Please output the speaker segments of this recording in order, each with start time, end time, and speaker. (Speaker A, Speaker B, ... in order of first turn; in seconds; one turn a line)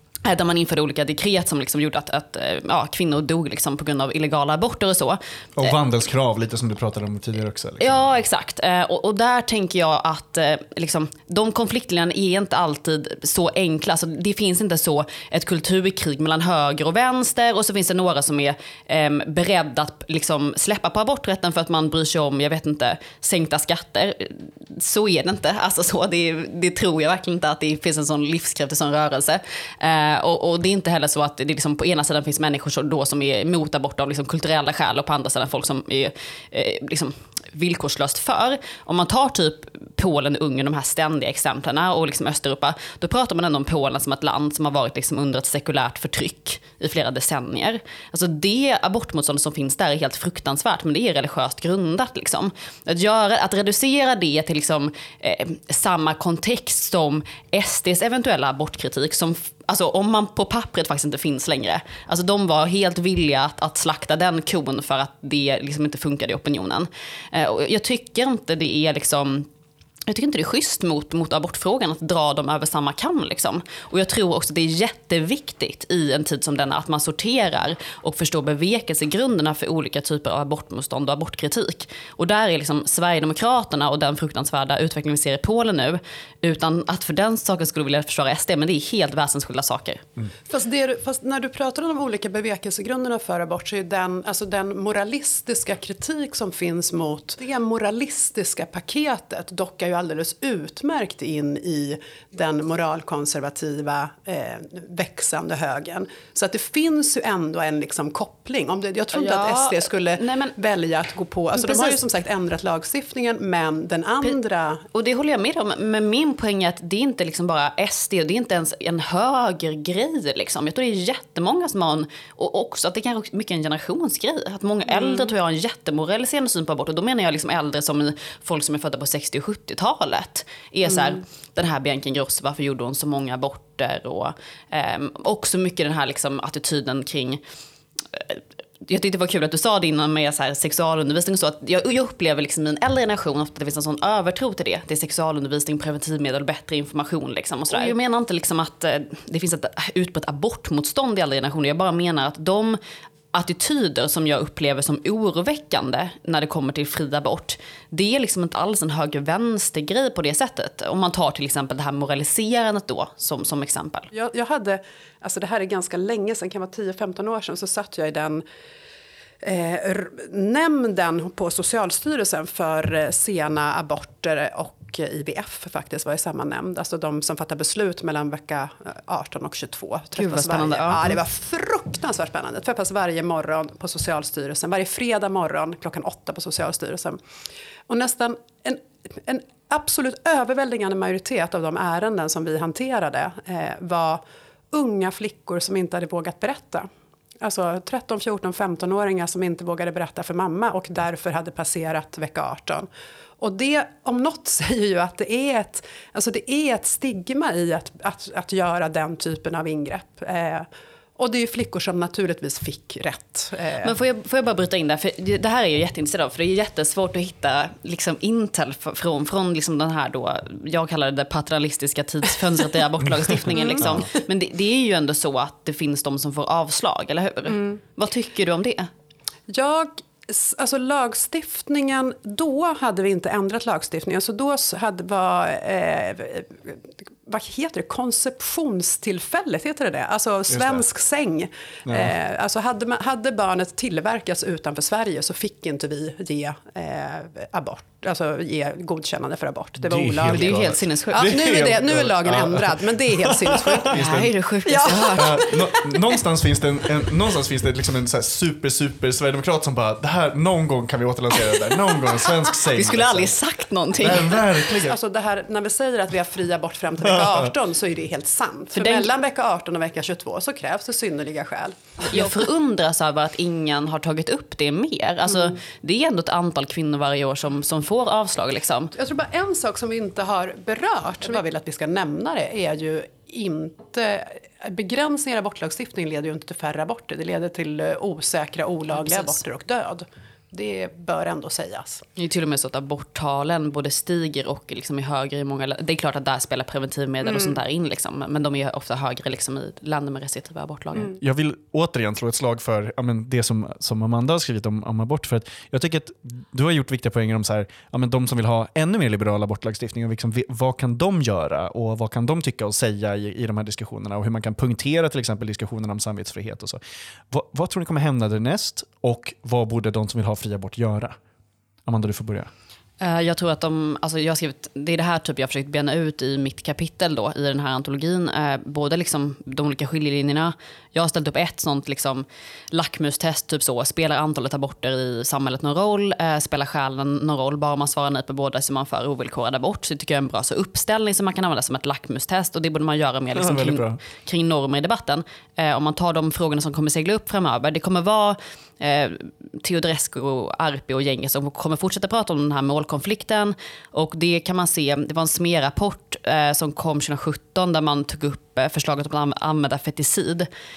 Speaker A: 0.2-5.8
Speaker B: 5.6-8.2
Speaker A: 7.8-69.5
Speaker A: 70.1-90.0
Speaker C: 90.5-114.8
Speaker A: 109.1-110.5
Speaker A: 111.5-112.0
Speaker A: 114.9-137.4
Speaker A: 138.1-152.8
Speaker A: 153.3-164.1
Speaker C: 164.1-168.4
Speaker C: 169.4-187.2
Speaker A: 180.2-181.2
Speaker C: 187.9-196.9
Speaker C: 197.4-202.9
Speaker C: 203.4-214.0
Speaker A: 213.8-228.9
Speaker C: 223.6-223.9
Speaker C: 229.5-254.1
Speaker B: 240.5-240.8
Speaker B: 241.9-242.1
Speaker B: 249.8-254.3
Speaker A: 250.3-251.4
Speaker A: 253.9-255.5
Speaker C: 254.7-256.2
Speaker B: 255.1-263.4
Speaker A: 262.7-264.4
Speaker B: 264.0-265.0
Speaker C: 264.7-272.3
Speaker B: 267.1-267.5
Speaker A: 268.8-269.1
Speaker A: 272.1-278.9
Speaker C: 278.9-292.1
Speaker A: 288.9-289.4
Speaker A: 292.2-301.2
Speaker B: 301.2-321.2
Speaker B: 321.9-322.5
Speaker A: 323.0-360.5
Speaker B: 343.3-344.0